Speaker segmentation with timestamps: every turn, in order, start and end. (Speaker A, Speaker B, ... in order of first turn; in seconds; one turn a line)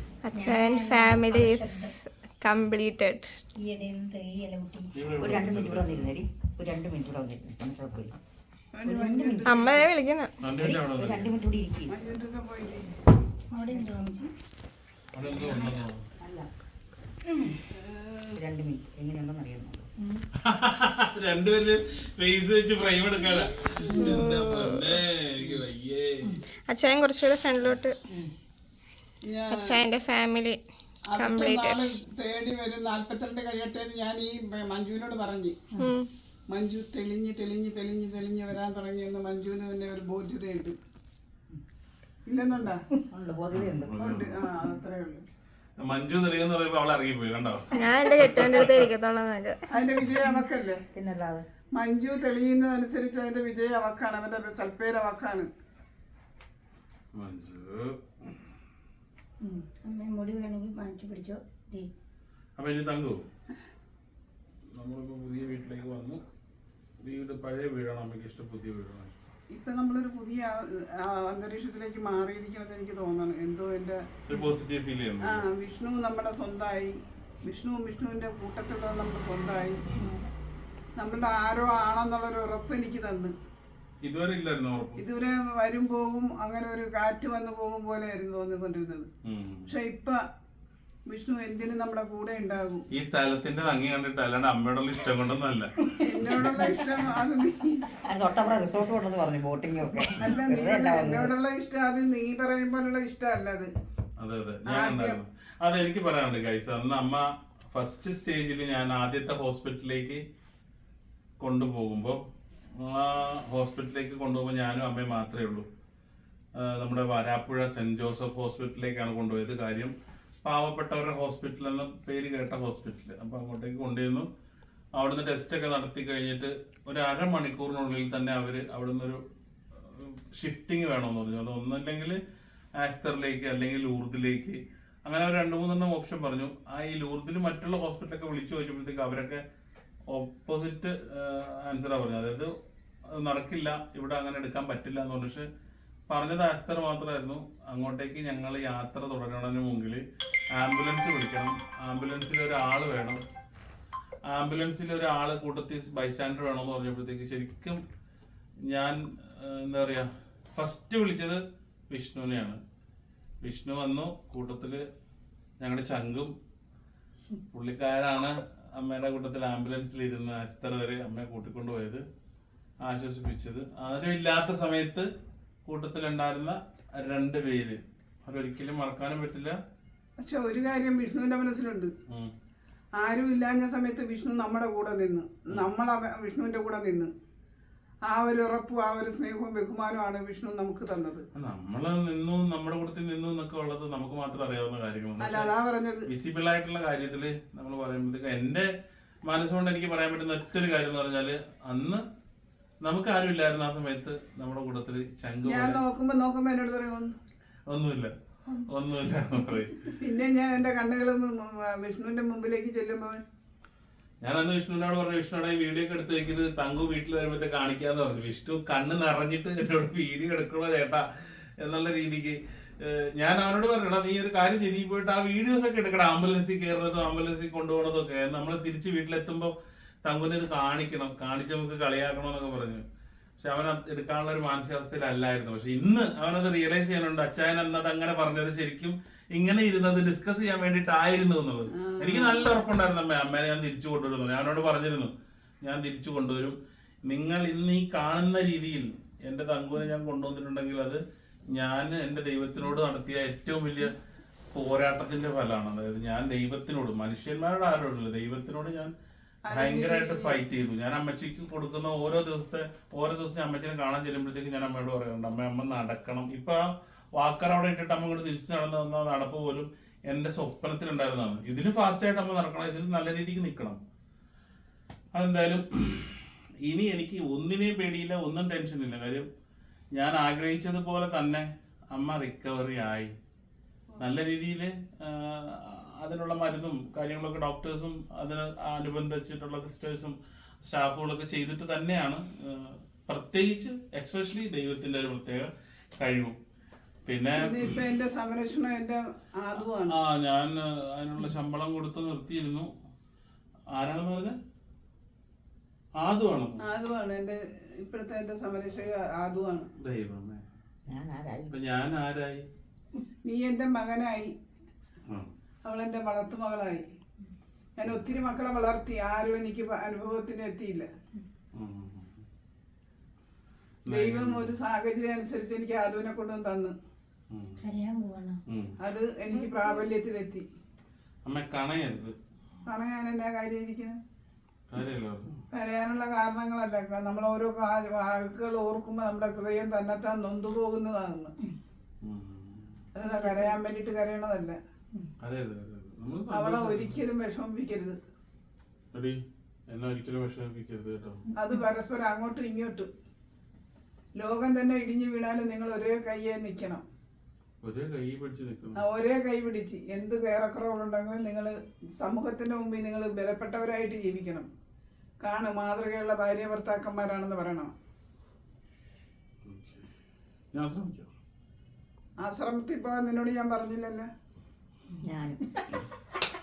Speaker A: 0.2-3.4
Speaker B: 0.3-1.9
Speaker B: 3.6-4.9
Speaker C: 4.9-6.1
Speaker D: 5.2-8.2
Speaker E: 8.7-9.8
Speaker D: 8.8-9.5
Speaker A: 9.4-10.3
Speaker C: 10.4-11.3
Speaker D: 10.6-11.9
Speaker E: 11.9-12.9
Speaker B: 13.5-14.3
Speaker C: 15.1-16.0
Speaker D: 16.2-16.5
Speaker E: 17.7-18.2
Speaker D: 18.3-19.9
Speaker C: 20.4-26.4
Speaker E: 23.8-24.2
Speaker A: 24.1-25.0
Speaker A: 26.7-27.9
Speaker E: 29.2-29.8
Speaker A: 29.5-30.6
Speaker E: 31.1-35.6
Speaker A: 31.1-31.9
Speaker A: 35.8-36.1
Speaker E: 36.5-40.8
Speaker E: 42.2-42.8
Speaker D: 43.1-43.9
Speaker C: 43.5-44.4
Speaker E: 44.0-45.2
Speaker C: 45.8-48.8
Speaker A: 47.7-49.6
Speaker E: 49.7-50.8
Speaker D: 50.9-51.4
Speaker E: 51.7-55.5
Speaker C: 57.1-58.4
Speaker B: 59.4-61.9
Speaker C: 62.6-63.3
Speaker C: 64.7-66.2
Speaker C: 67.0-69.2
Speaker E: 69.5-74.0
Speaker C: 74.3-75.4
Speaker E: 75.2-79.8
Speaker C: 79.9-80.2
Speaker E: 81.0-83.3
Speaker C: 84.0-85.0
Speaker E: 85.0-89.1
Speaker C: 89.2-89.7
Speaker E: 89.7-90.2
Speaker E: 91.1-92.8
Speaker C: 92.9-95.7
Speaker E: 96.0-97.8
Speaker D: 98.0-101.3
Speaker E: 100.2-103.7
Speaker C: 104.2-110.2
Speaker E: 104.7-105.2
Speaker C: 111.4-112.2
Speaker C: 112.8-115.7
Speaker C: 116.5-119.9
Speaker C: 120.4-124.3
Speaker C: 125.0-129.2
Speaker C: 129.8-132.2
Speaker C: 132.8-139.4
Speaker C: 140.1-142.5
Speaker C: 143.1-145.5
Speaker C: 146.1-150.0
Speaker C: 150.5-153.2
Speaker C: 154.3-157.8
Speaker C: 158.7-162.6
Speaker C: 163.4-164.8
Speaker C: 165.6-166.3
Speaker C: 167.5-172.0
Speaker C: 172.8-175.1
Speaker C: 175.7-179.6
Speaker E: 180.2-181.9
Speaker E: 183.0-187.1
Speaker E: 188.1-191.2
Speaker C: 191.3-195.5
Speaker E: 195.2-196.1
Speaker C: 196.1-198.7
Speaker C: 199.2-202.0
Speaker C: 202.8-205.8
Speaker E: 205.4-207.2
Speaker C: 207.7-208.1
Speaker C: 208.7-209.9
Speaker E: 210.0-213.2
Speaker C: 214.2-229.5
Speaker C: 230.0-232.8
Speaker C: 233.4-253.9
Speaker E: 241.7-242.5
Speaker C: 254.5-258.9
Speaker E: 259.5-260.4
Speaker C: 259.5-273.8
Speaker C: 275.1-279.3
Speaker C: 279.9-283.1
Speaker C: 284.0-296.4
Speaker C: 297.1-297.7
Speaker E: 297.4-299.9
Speaker C: 299.9-302.7
Speaker C: 303.7-304.4
Speaker C: 306.0-306.6
Speaker E: 306.6-309.7
Speaker C: 309.8-310.4
Speaker D: 310.9-311.5
Speaker C: 311.5-312.4
Speaker E: 313.2-314.3
Speaker E: 315.6-316.8
Speaker E: 317.8-320.9
Speaker C: 321.5-322.2
Speaker C: 323.9-324.5
Speaker E: 323.9-326.7
Speaker C: 327.3-327.6
Speaker B: 327.6-328.4
Speaker C: 328.5-328.8
Speaker E: 328.8-330.4
Speaker C: 331.2-332.1
Speaker E: 332.7-334.0
Speaker C: 334.7-335.4
Speaker E: 335.5-341.3
Speaker C: 342.0-342.8
Speaker E: 342.9-344.6
Speaker C: 345.2-347.0
Speaker E: 346.3-348.0
Speaker C: 348.9-351.2
Speaker E: 351.4-352.9
Speaker E: 354.2-356.8
Speaker C: 357.6-358.8
Speaker E: 358.8-364.5
Speaker E: 365.2-367.7
Speaker C: 369.4-369.9
Speaker C: 370.5-371.1
Speaker E: 372.2-374.1
Speaker D: 375.0-375.7